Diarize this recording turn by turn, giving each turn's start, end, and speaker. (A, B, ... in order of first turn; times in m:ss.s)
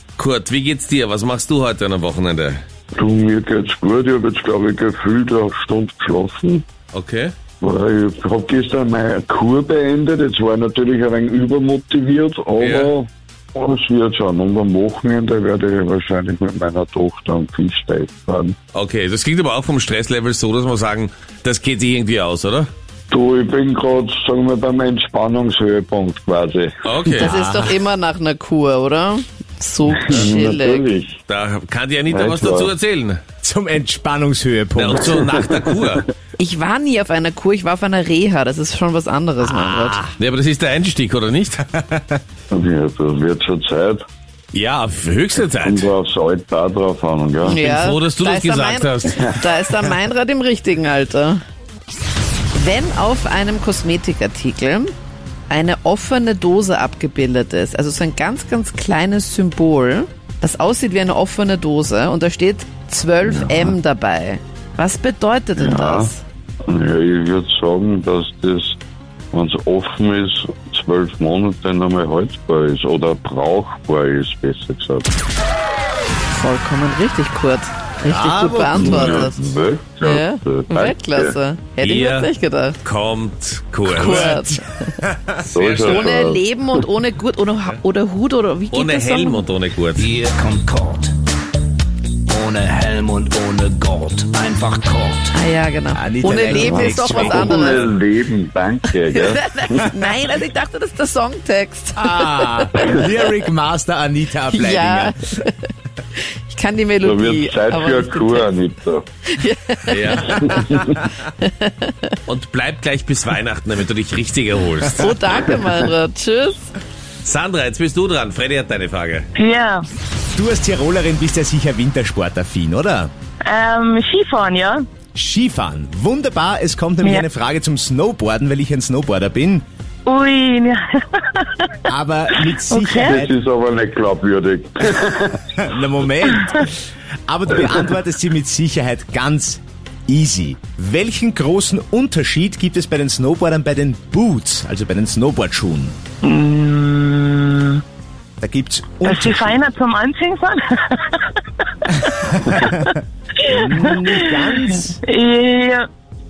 0:00.2-0:02.6 A
0:03.0-0:06.6 B
0:06.9-0:07.3 A
0:07.6-0:18.6 B
0:12.6-0:12.9 A
0:18.7-0:22.7 A
0:23.1-0:27.3 B
0:26.8-0:27.6 A
0:27.1-0:30.8 C
0:29.9-0:31.2 B
0:31.3-0:33.2 A
0:32.1-0:32.7 B
0:33.4-0:35.2 D
0:34.8-0:36.0 A
0:36.4-0:40.0 C
0:39.4-0:40.1 D
0:40.2-0:41.6 A
0:41.7-0:42.2 D
0:42.5-0:44.0 B
0:44.5-0:45.9 A
0:45.6-0:47.6 B
0:47.4-0:51.4 C
0:47.5-0:49.3 A
0:52.5-0:54.9 C
0:55.5-1:06.2 C
1:03.2-1:03.8 B
1:05.6-1:06.1 B
1:06.7-1:08.8 B
1:09.3-1:15.1 B
1:16.3-1:22.8 C
1:18.0-1:19.3 D
1:18.7-1:21.3 B
1:21.8-1:22.3 A
1:22.8-1:24.4 A
1:23.9-1:24.8 C
1:23.9-1:25.6 D
1:25.5-1:26.4 B
1:25.6-1:26.1 A
1:25.8-1:29.5 C
1:28.7-1:30.1 A
1:29.9-1:31.1 E
1:32.3-1:35.3 E
1:35.3-1:37.9 C
1:35.9-1:37.8 D
1:36.5-1:39.9 B
1:39.1-1:43.3 C
1:42.0-1:45.2 D
1:44.5-1:45.7 C
1:46.5-1:48.5 C
1:47.0-1:49.1 B
1:49.3-1:50.8 C
1:49.9-1:50.3 A
1:50.3-1:51.0 B
1:51.4-1:52.2 C
1:52.3-1:55.1 A
1:54.9-1:56.6 C
1:57.2-1:59.2 A
1:59.4-1:59.9 F
2:00.3-2:03.1 D
2:03.4-2:04.8 F
2:05.1-2:09.6 D
2:10.1-2:11.8 F
2:11.9-2:13.3 D
2:12.7-2:13.2 F
2:13.0-2:15.5 B
2:15.6-2:26.0 D
2:26.2-2:27.8 F
2:28.4-2:29.5 D
2:29.0-2:34.5 F
2:33.5-2:35.0 D
2:35.0-2:35.9 F